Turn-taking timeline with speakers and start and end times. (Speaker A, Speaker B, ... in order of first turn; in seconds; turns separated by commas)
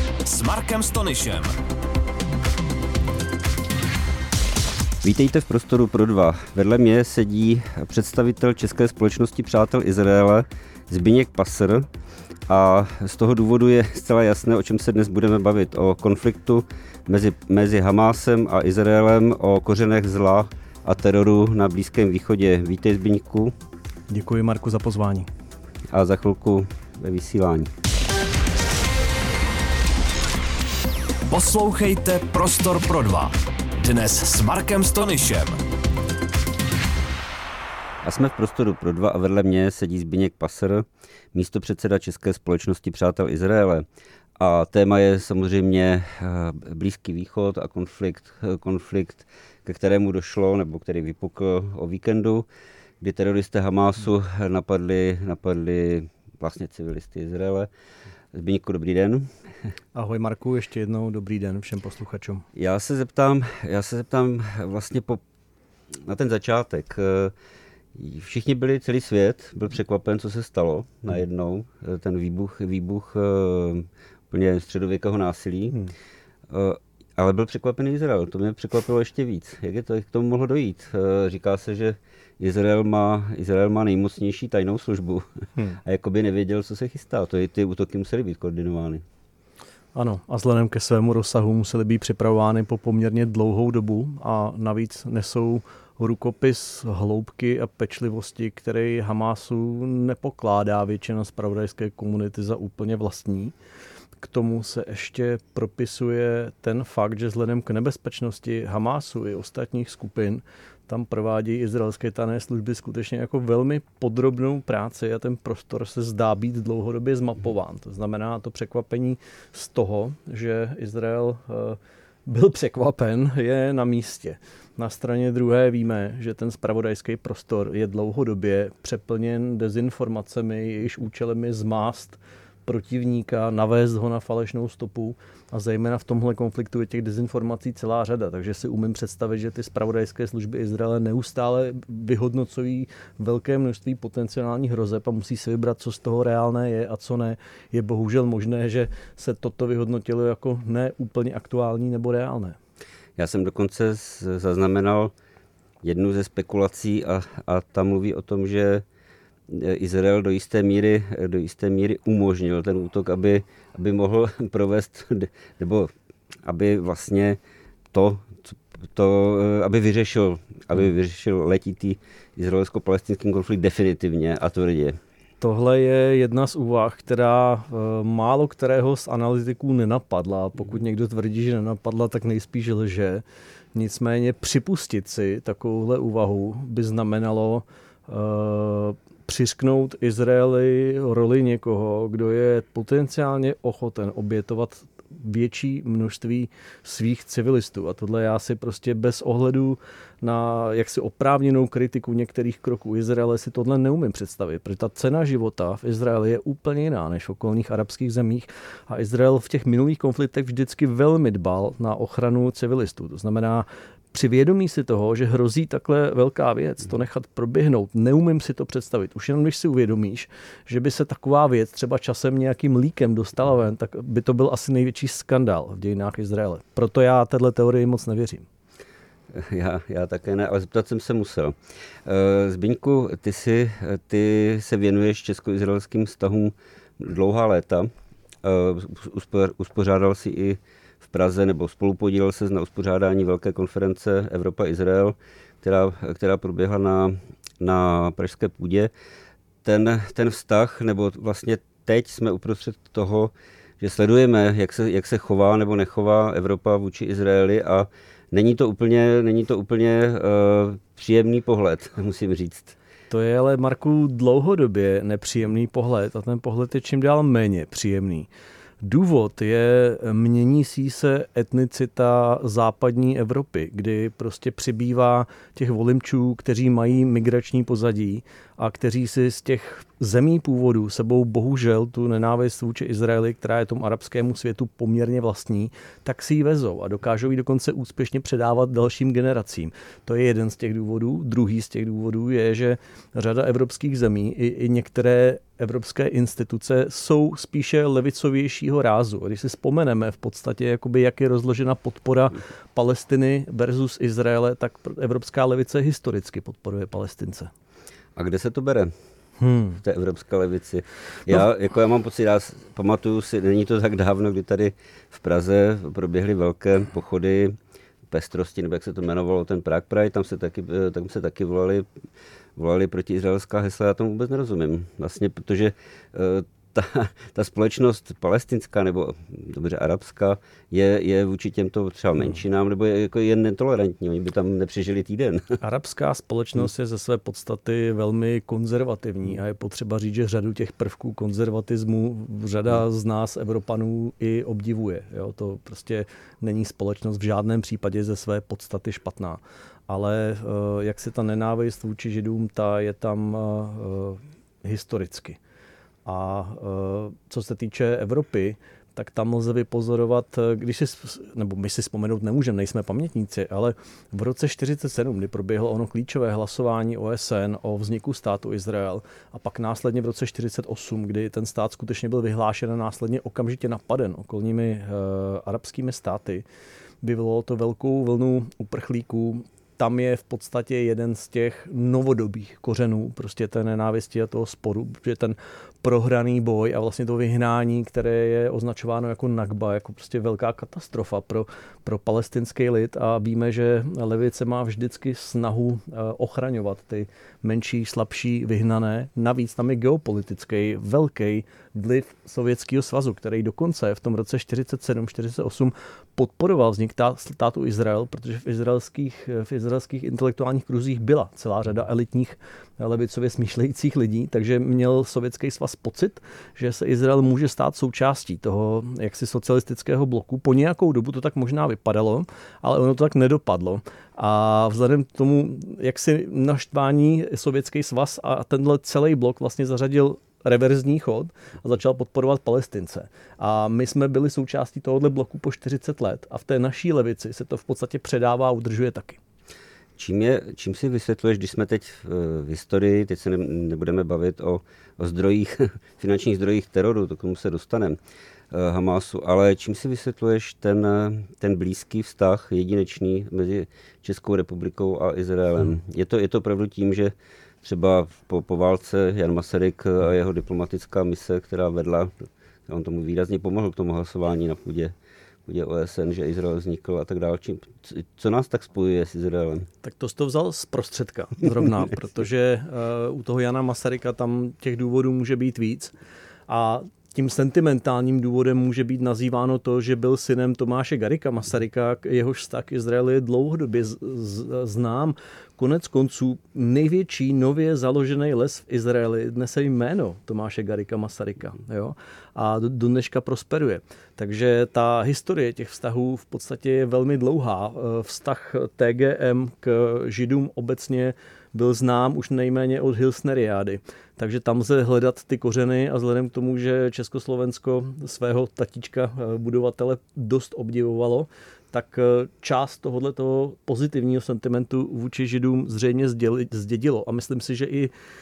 Speaker A: 0.2-1.5, Speaker B: 5.0-11.9, Speaker B: 12.5-23.5, Speaker C: 24.1-25.3, Speaker B: 25.9-27.7, Speaker A: 31.3-35.6, Speaker B: 38.0-43.9, Speaker B: 44.4-52.5, Speaker B: 53.0-57.7, Speaker B: 58.3-59.3, Speaker C: 60.0-62.4, Speaker B: 62.5-65.2, Speaker B: 66.0-67.3, Speaker B: 67.9-75.8, Speaker B: 76.5-89.0, Speaker C: 90.0-103.5, Speaker C: 104.2-152.6, Speaker B: 153.2-155.1, Speaker B: 155.8-158.8, Speaker B: 159.5-165.9, Speaker B: 166.4-167.4, Speaker B: 167.9-175.0, Speaker C: 175.4-183.2, Speaker C: 183.8-228.5, Speaker B: 229.3-237.9, Speaker B: 238.4-248.9, Speaker B: 249.6-262.8, Speaker C: 263.1-268.3, Speaker C: 268.8-307.5, Speaker B: 308.2-308.9, Speaker C: 309.4-309.8, Speaker B: 309.8-317.6, Speaker B: 318.1-321.9, Speaker B: 322.6-335.6, Speaker C: 335.6-355.4, Speaker C: 356.1-376.5, Speaker C: 377.0-439.2, Speaker B: 440.0-448.0, Speaker B: 448.5-464.9, Speaker B: 465.5-469.7, Speaker C: 469.8-475.9, Speaker C: 476.5-517.9